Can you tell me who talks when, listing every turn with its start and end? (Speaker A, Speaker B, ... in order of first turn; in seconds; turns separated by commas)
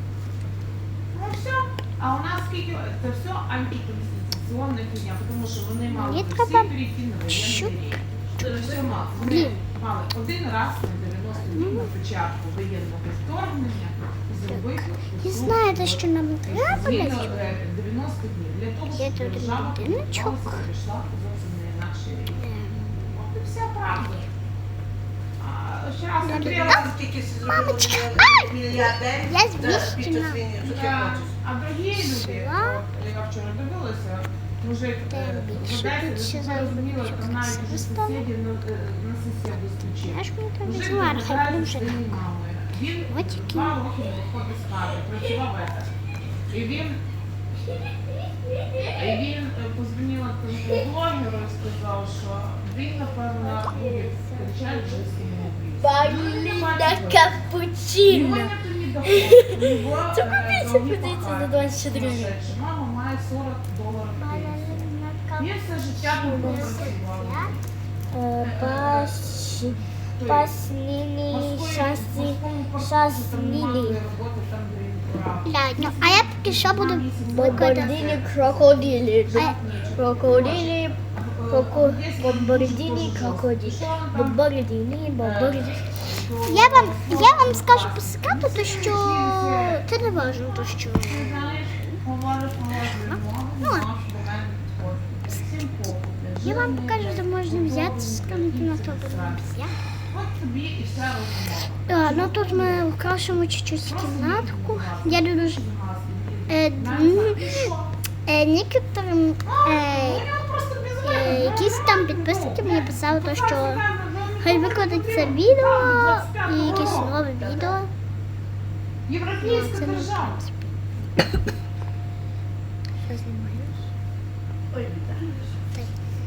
Speaker A: 1.1-22.4, Speaker B: 5.9-6.7, Speaker B: 7.3-7.7, Speaker C: 8.4-8.8, Speaker B: 9.2-9.6, Speaker B: 11.4-11.9, Speaker B: 14.5-17.6, Speaker B: 18.9-20.6, Speaker B: 22.4-23.1, Speaker A: 22.9-24.3, Speaker A: 25.4-26.9, Speaker B: 26.2-26.9, Speaker C: 26.6-31.3, Speaker B: 27.4-30.5, Speaker A: 30.6-45.9, Speaker B: 31.9-32.8, Speaker B: 35.1-38.3, Speaker B: 39.8-42.2, Speaker B: 43.1-43.8, Speaker A: 46.5-47.0, Speaker D: 47.7-49.2, Speaker A: 49.0-57.4, Speaker D: 50.6-50.9, Speaker D: 53.4-62.4, Speaker A: 58.0-67.6, Speaker B: 64.2-65.5, Speaker D: 66.0-67.0, Speaker B: 66.2-67.5, Speaker D: 68.1-74.0, Speaker A: 68.4-70.5, Speaker A: 71.3-84.5, Speaker B: 75.4-78.1, Speaker D: 77.2-85.8, Speaker A: 85.2-99.4, Speaker B: 86.4-92.0, Speaker B: 93.0-93.9, Speaker B: 96.4-99.8, Speaker A: 100.1-107.9, Speaker B: 101.9-105.6, Speaker B: 106.5-107.7, Speaker B: 108.2-110.3, Speaker A: 109.4-117.2, Speaker B: 111.0-113.8, Speaker B: 114.4-117.9, Speaker C: 116.6-117.8, Speaker A: 119.1-120.4, Speaker B: 119.4-120.7, Speaker D: 123.1-123.8, Speaker B: 123.1-123.6, Speaker C: 124.7-125.5, Speaker B: 125.2-125.9